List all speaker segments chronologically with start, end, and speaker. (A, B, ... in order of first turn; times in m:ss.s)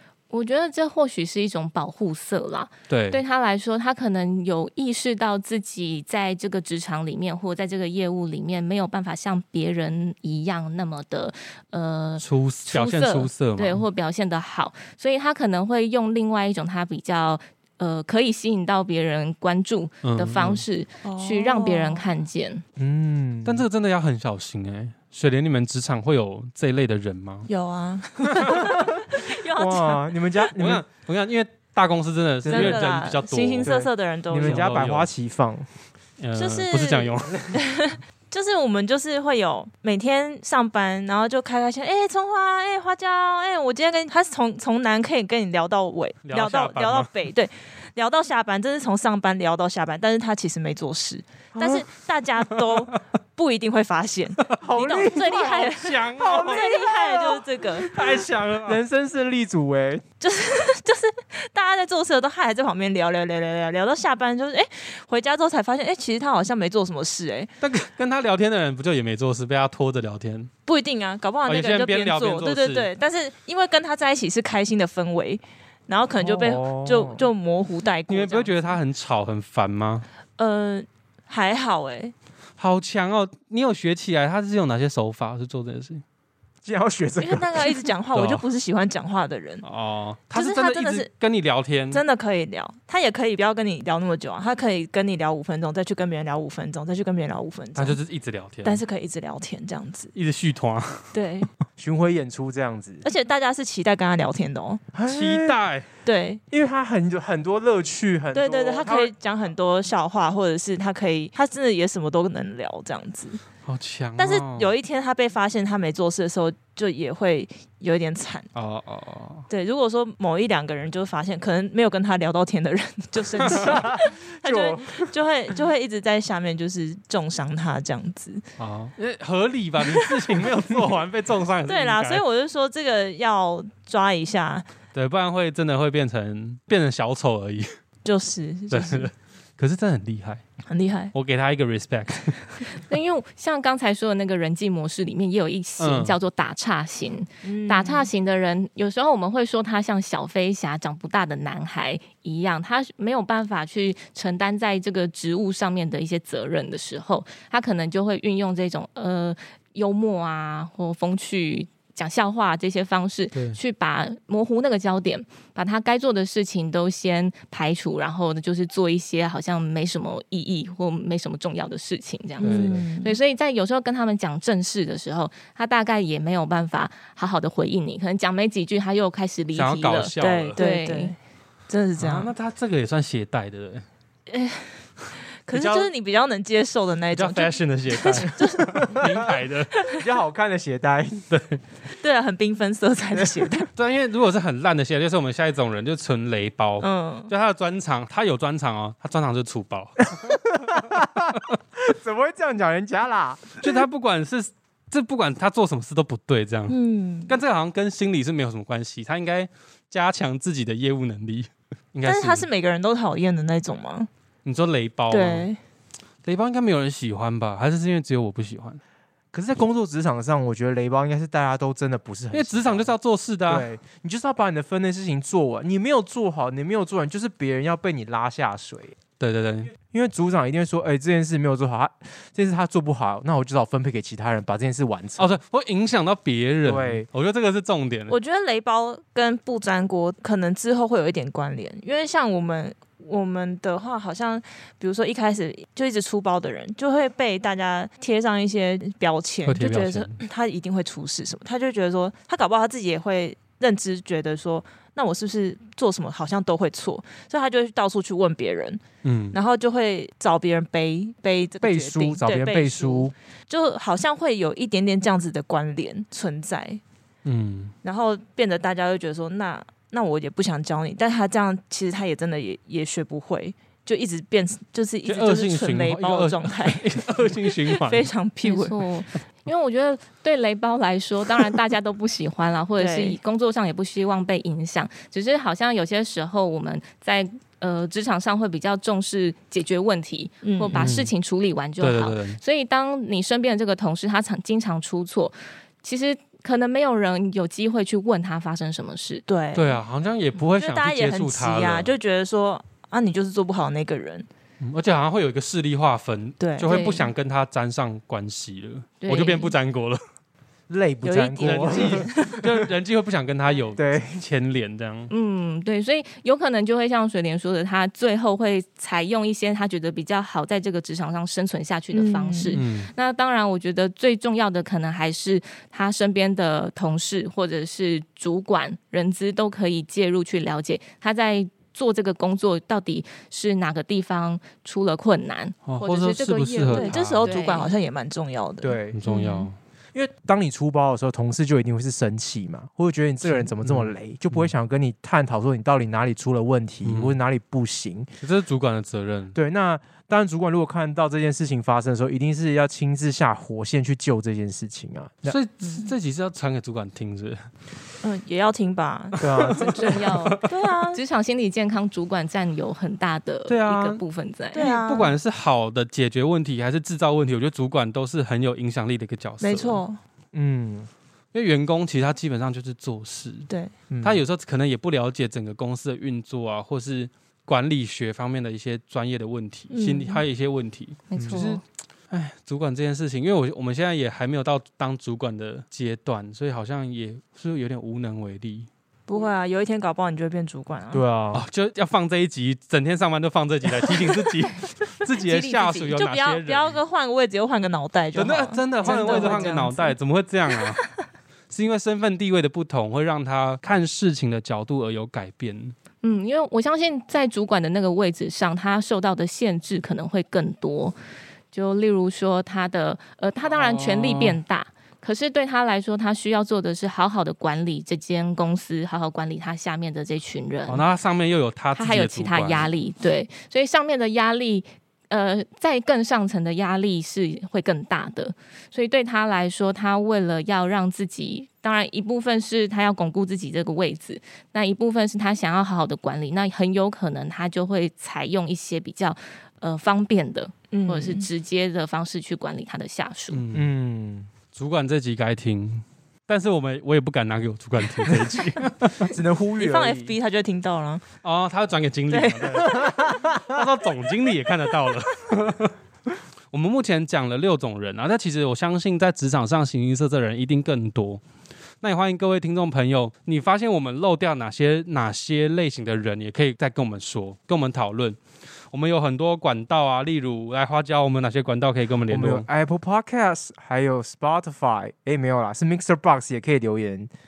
0:00.3-0:22.6 A
0:02.9-0:03.2 B
0:12.2-0:13.8 B
0:20.0-0:20.6 B
0:21.0-0:22.1 C
0:22.8-0:23.6 D
0:23.4-0:27.5 B
0:27.5-0:30.5 C
0:28.5-0:29.0 D
0:29.6-0:30.8 D
0:30.6-0:35.1 B
0:32.4-0:32.8 D
0:32.5-0:34.8 C
0:33.6-0:35.7 D
0:36.2-0:37.5 B
0:36.3-0:57.9 C
0:46.2-0:47.1 B
0:51.5-0:51.8 D
0:54.6-0:57.4 D
0:55.3-0:56.8 B
0:57.9-0:58.8 B
0:58.6-1:00.0 D
1:00.2-1:07.5 C
1:07.6-1:10.5 B
1:10.6-1:18.5 C
1:11.4-1:12.9 B
1:16.2-1:17.2 D
1:18.1-1:20.0 B
1:20.4-1:22.1 C
1:22.6-1:26.0 B
1:26.6-1:27.9 D
1:27.2-1:29.6 C
1:28.1-1:28.4 B
1:29.6-1:32.0 B
1:30.3-1:31.1 C
1:31.9-1:38.0 C
1:37.7-1:38.8 B
1:38.6-1:40.1 C
1:40.1-1:41.1 B
1:41.1-1:41.5 C
1:41.8-1:43.0 D
1:43.0-1:44.8 C
1:44.9-1:45.6 D
1:45.0-1:45.9 B
1:46.0-1:46.4 C
1:46.5-1:49.1 D
1:48.3-1:53.4 C
1:53.6-1:54.7 B
1:54.2-1:58.5 C
1:58.5-1:59.4 B
1:59.5-2:08.4 C
2:03.4-2:05.1 D
2:08.6-2:12.2 B
2:09.8-2:10.4 C
2:11.6-2:14.7 C
2:14.9-2:17.7 B
2:18.0-2:19.1 C
2:18.7-2:20.4 B
2:20.7-2:21.1 C
2:21.1-2:22.6 B
2:22.7-3:01.1 A
2:25.8-2:26.2 B
2:27.4-2:28.1 C
2:43.3-2:43.6 B
2:52.4-2:52.8 B
2:52.4-2:53.2 C
2:59.6-3:00.6 B
3:00.2-3:01.2 C
3:01.7-3:02.3 C
3:02.0-3:03.8 B
3:04.3-3:04.9 C
3:05.4-3:10.1 C
3:05.5-3:05.9 B
3:07.1-3:09.7 B
3:08.8-3:09.2 D
3:09.9-3:11.2 D
3:11.3-3:11.6 B
3:11.9-3:13.7 C
3:13.7-3:20.4 B
3:16.8-3:17.3 C
3:20.1-3:23.7 D
3:23.6-3:32.5 B
3:26.7-3:27.3 C
3:32.0-3:34.1 C
3:34.4-3:35.5 B
3:35.1-3:35.6 C
3:36.2-3:38.8 B
3:39.3-3:42.9 D
3:42.3-3:43.7 B
3:43.5-3:49.0 D
3:49.2-3:49.7 B
3:49.9-3:55.3 D
3:55.2-3:58.2 B
3:56.6-3:57.1 D
3:58.1-4:26.8 C
4:09.4-4:10.2 B
4:19.0-4:19.4 B
4:21.6-4:23.1 D
4:27.2-4:27.7 B
4:27.8-4:38.8 C
4:35.0-4:38.1 B
4:38.4-4:59.2 A
4:42.8-4:43.2 C
4:50.4-4:51.0 C
4:50.7-4:51.1 B
4:51.8-4:52.4 B
4:59.3-4:59.8 C
4:59.5-5:01.9 B
5:00.5-5:04.3 C
5:04.6-5:10.0 B
5:06.4-5:06.8 C
5:06.7-5:07.1 A
5:09.0-5:09.5 A
5:10.7-5:12.4 D
5:11.0-5:12.5 C
5:11.4-5:15.1 B
5:13.8-5:14.2 D
5:15.1-5:37.7 A
5:21.9-5:22.6 C
5:22.5-5:22.9 B
5:35.6-5:37.3 B
5:36.7-5:39.5 C
5:38.6-5:39.0 D
5:38.9-5:39.6 B
5:39.9-5:48.1 D
5:43.2-5:44.5 B
5:46.8-5:47.2 B
5:48.2-5:49.4 B
5:49.3-5:55.4 D
5:55.2-5:57.4 B
5:55.6-5:55.9 C
5:58.0-6:01.0 C
5:59.2-5:59.8 D
5:59.2-6:00.4 B
5:59.8-6:04.7 A
6:03.5-6:04.0 B
6:04.5-6:05.2 C
6:04.6-6:09.8 B
6:09.4-6:10.0 C
6:10.3-6:10.9 D
6:11.3-6:13.5 B
6:13.5-6:13.7 C
6:13.9-6:14.2 D
6:14.0-6:28.7 B
6:19.7-6:20.2 C
6:21.1-6:21.6 A
6:21.1-6:21.4 D
6:29.1-6:31.0 C
6:30.9-6:31.4 D
6:31.3-6:36.8 B
6:33.8-6:34.3 C
6:34.8-6:39.9 C
6:38.1-6:40.8 B
6:38.8-6:39.5 A
6:40.5-6:40.9 C
6:41.5-6:45.7 B
6:46.0-6:51.0 A
6:51.5-7:00.8 A
6:53.5-6:54.4 B
7:00.7-7:02.7 B
7:01.7-7:23.4 A
7:20.7-7:21.3 C
7:23.3-7:23.7 B
7:23.5-7:24.3 D
7:24.5-7:29.1 B
7:29.1-7:30.2 D
7:29.6-7:31.0 C
7:31.2-7:35.7 B
7:32.1-7:33.1 C
7:32.8-7:33.6 D
7:36.5-7:41.2 B
7:41.8-7:48.2 B
7:48.7-7:52.4 B
7:52.1-7:57.1 D